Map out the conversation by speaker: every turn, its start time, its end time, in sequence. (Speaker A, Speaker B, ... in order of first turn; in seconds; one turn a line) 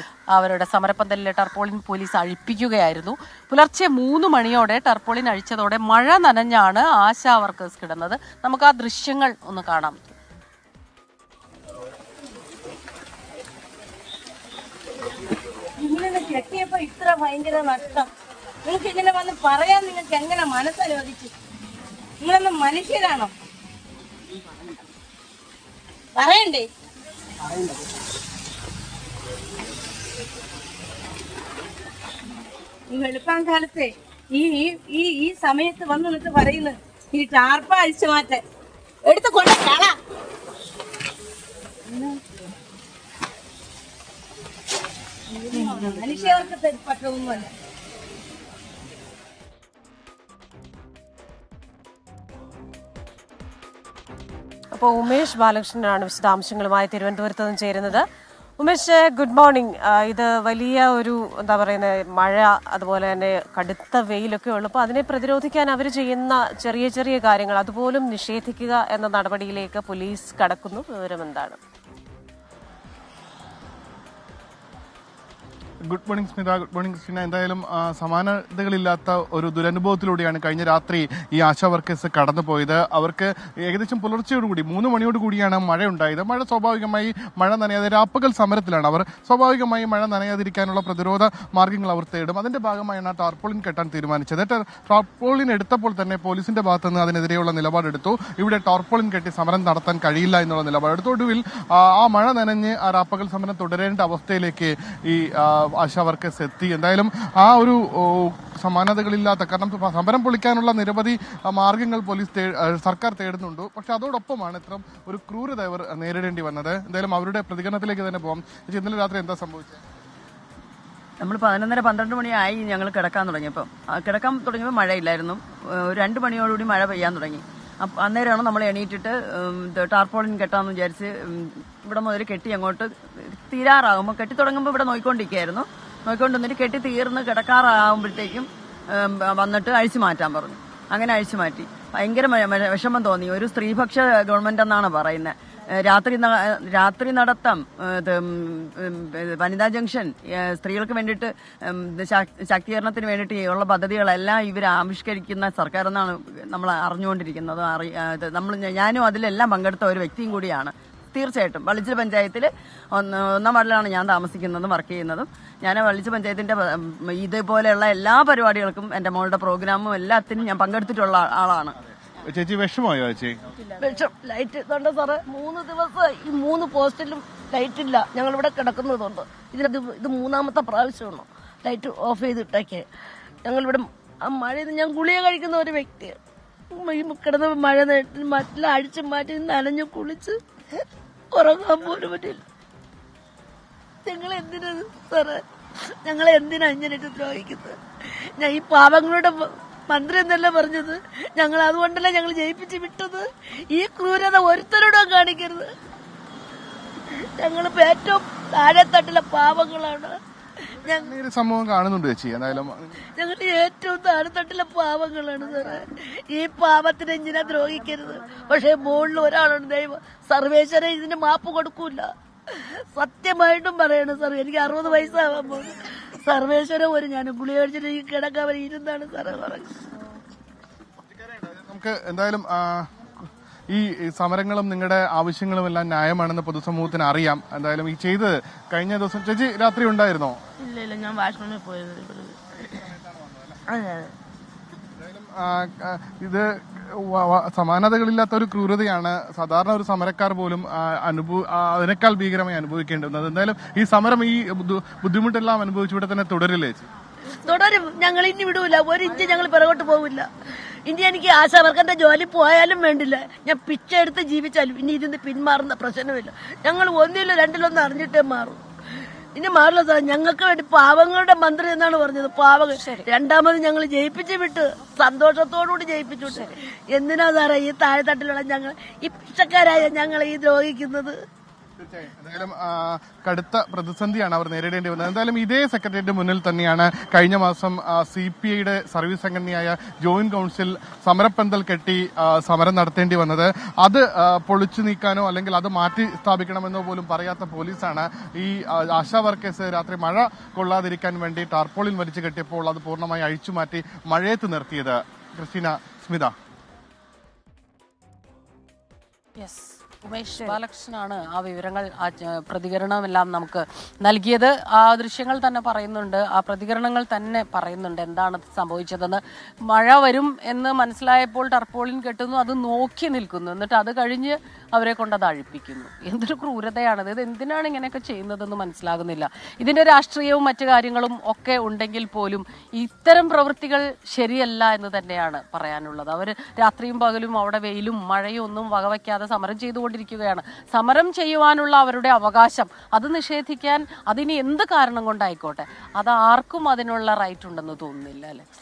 Speaker A: 0.3-10.0
Speaker B: 15.8-18.1
Speaker B: 18.7-21.3
Speaker B: 22.2-23.3
Speaker B: 26.2-26.7
Speaker B: 32.9-38.4
Speaker B: 39.0-40.0
Speaker B: 45.4-47.5
Speaker C: 54.7-71.6
Speaker D: 75.9-119.8
Speaker E: 121.2-171.8
Speaker D: 172.2-173.4
Speaker F: 173.8-182.8
Speaker F: 183.4-186.2
Speaker F: 186.7-190.4
Speaker F: 191.3-192.4
Speaker F: 194.1-195.4
Speaker F: 196.0-197.8
Speaker F: 198.4-205.7
Speaker F: 207.3-210.2
Speaker D: 210.8-213.1
Speaker F: 210.8-211.1
Speaker F: 213.1-229.8
Speaker D: 231.2-232.9
Speaker D: 233.7-240.4
Speaker D: 242.6-243.6
Speaker D: 245.0-256.9
Speaker F: 257.4-260.3
Speaker F: 260.9-268.6
Speaker F: 269.4-281.2
Speaker C: 272.8-273.1
Speaker C: 276.3-276.5
Speaker D: 281.8-306.3
Speaker A: 309.4-348.4